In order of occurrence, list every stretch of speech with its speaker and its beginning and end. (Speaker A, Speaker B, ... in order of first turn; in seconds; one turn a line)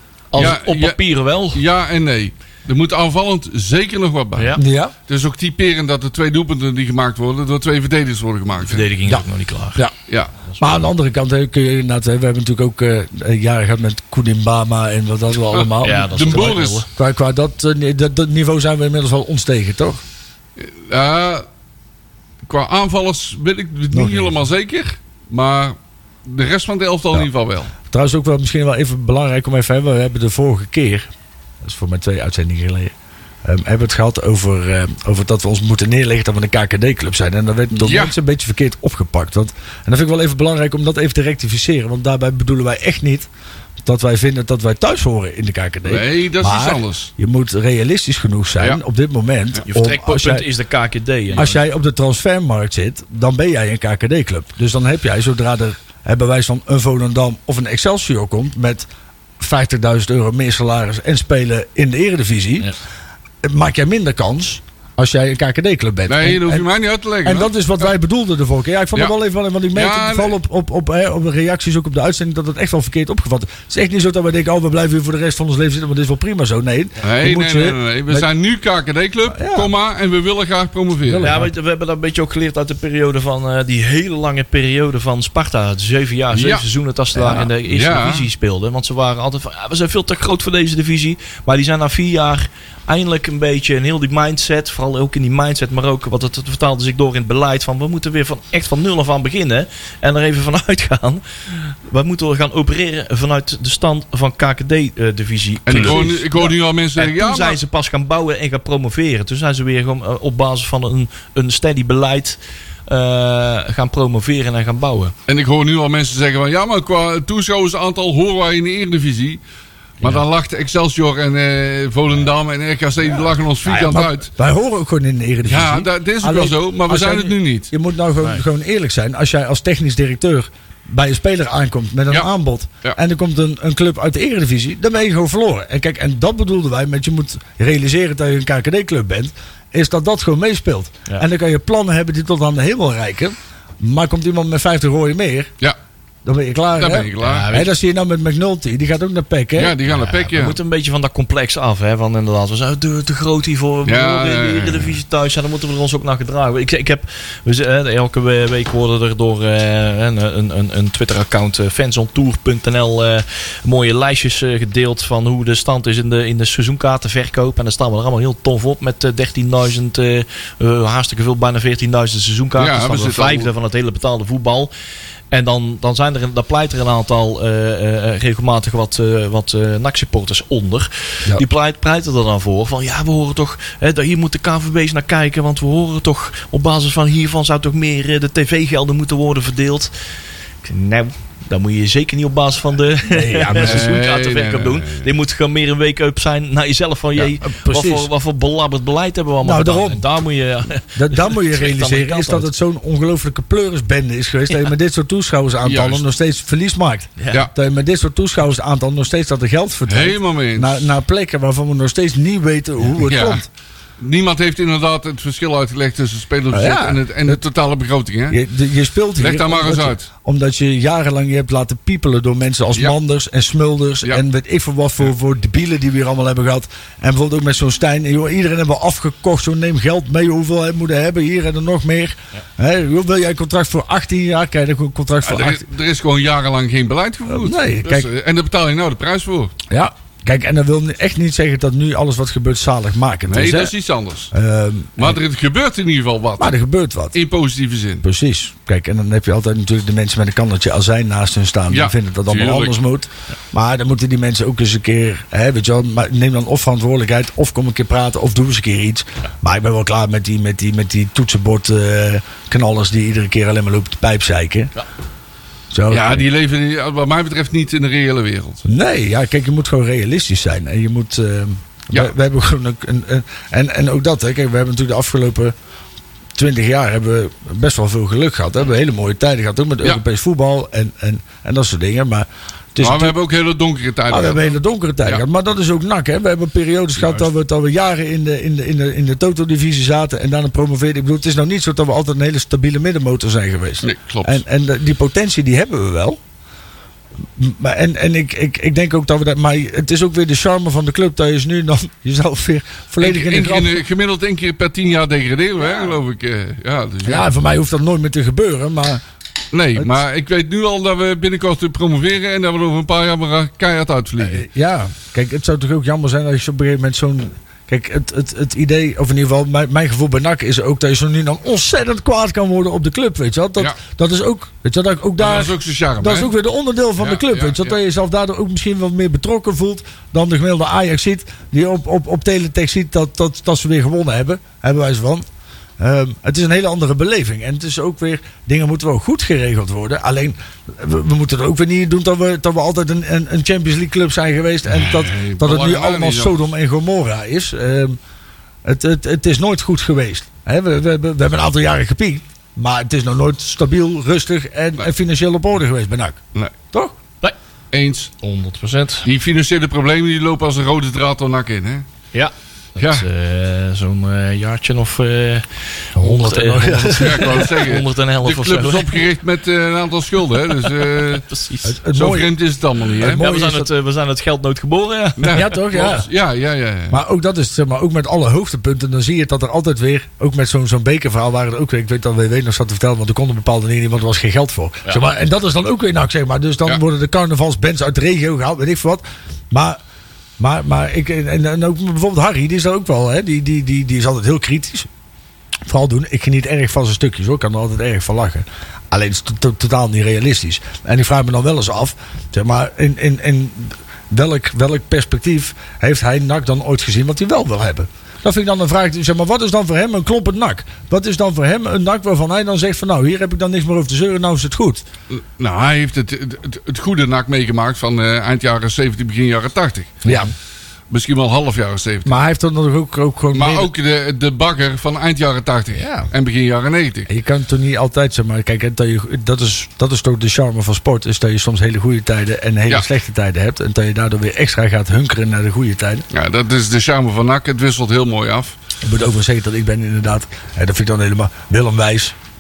Speaker A: 0.3-1.6
Speaker B: 0.3-1.0
Speaker B: 1.5-8.9
Speaker A: 4.4-4.6
Speaker C: 4.6-4.9
Speaker A: 8.6-9.8
Speaker C: 10.6-16.1
Speaker B: 15.6-16.8
Speaker A: 15.8-16.9
Speaker C: 16.9-20.0
Speaker B: 20.6-21.4
Speaker B: 22.4-27.7
Speaker C: 23.9-24.4
Speaker C: 27.9-31.1
Speaker C: 31.6-43.3
Speaker B: 37.7-38.1
Speaker C: 43.8-50.5
Speaker B: 45.9-47.1
Speaker A: 49.7-51.6
Speaker C: 51.3-58.9
Speaker C: 59.4-62.7
Speaker C: 63.4-66.7
Speaker B: 66.1-67.9
Speaker C: 67.2-78.3
Speaker B: 69.7-70.4
Speaker B: 77.0-81.4
Speaker C: 79.3-79.7
Speaker C: 81.0-81.5
Speaker A: 81.2-115.1
Speaker B: 86.3-86.7
Speaker B: 87.2-88.3
Speaker B: 105.7-107.6
Speaker B: 115.3-119.4
Speaker B: 120.0-124.3
Speaker C: 123.0-145.5
Speaker B: 125.5-127.7
Speaker C: 146.2-149.8
Speaker B: 146.8-147.5
Speaker A: 147.2-147.7
Speaker B: 149.6-150.6
Speaker A: 149.9-174.7
Speaker B: 153.8-155.0
Speaker B: 172.6-173.5
Speaker A: 175.3-189.9
Speaker A: 190.6-202.5
Speaker C: 193.1-194.0
Speaker B: 193.5-195.1
Speaker C: 197.2-198.1
Speaker C: 199.4-200.1
Speaker C: 200.9-213.5
Speaker B: 205.6-206.0
Speaker A: 207.2-207.5
Speaker B: 209.9-210.8
Speaker B: 213.0-213.4
Speaker B: 214.0-218.4
Speaker C: 216.5-217.4
Speaker C: 218.3-235.6
Speaker B: 219.2-220.1
Speaker B: 235.2-239.6
Speaker C: 237.3-238.1
Speaker C: 239.7-243.7
Speaker B: 243.3-244.3
Speaker C: 244.3-245.2
Speaker B: 245.0-246.6
Speaker C: 246.4-247.2
Speaker B: 247.1-248.0
Speaker C: 248.0-264.7
Speaker B: 251.7-252.8
Speaker C: 265.7-266.3
Speaker B: 265.9-268.6
Speaker C: 268.6-275.5
Speaker C: 276.4-283.1
Speaker B: 282.8-285.2
Speaker C: 284.1-296.2
Speaker B: 287.0-287.3
Speaker B: 293.8-294.4
Speaker C: 297.4-303.8
Speaker B: 303.0-307.3
Speaker C: 307.1-309.0
Speaker B: 309.5-314.4
Speaker C: 314.2-335.2
Speaker B: 325.2-326.3
Speaker B: 327.0-327.8
Speaker C: 335.8-348.0
Speaker B: 344.7-346.4
Speaker C: 348.6-356.2
Speaker B: 357.7-358.1
Speaker A: 358.2-359.1
Speaker B: 359.1-361.9
Speaker A: 362.1-369.0
Speaker B: 362.8-363.1
Speaker C: 366.0-367.5
Speaker B: 366.9-371.3
Speaker A: 370.7-371.8
Speaker C: 371.6-372.4
Speaker B: 371.9-373.2
Speaker C: 373.0-373.7
Speaker A: 373.1-375.5
Speaker B: 375.2-377.0
Speaker C: 375.3-376.1
Speaker C: 376.9-389.8
Speaker C: 390.4-394.9
Speaker C: 395.7-414.9
Speaker B: 415.1-420.1
Speaker C: 420.0-420.3
Speaker B: 420.9-422.2
Speaker C: 422.1-423.7
Speaker B: 423.3-427.1
Speaker C: 425.7-426.1
Speaker C: 427.1-436.1
Speaker B: 436.1-438.6
Speaker C: 438.8-442.2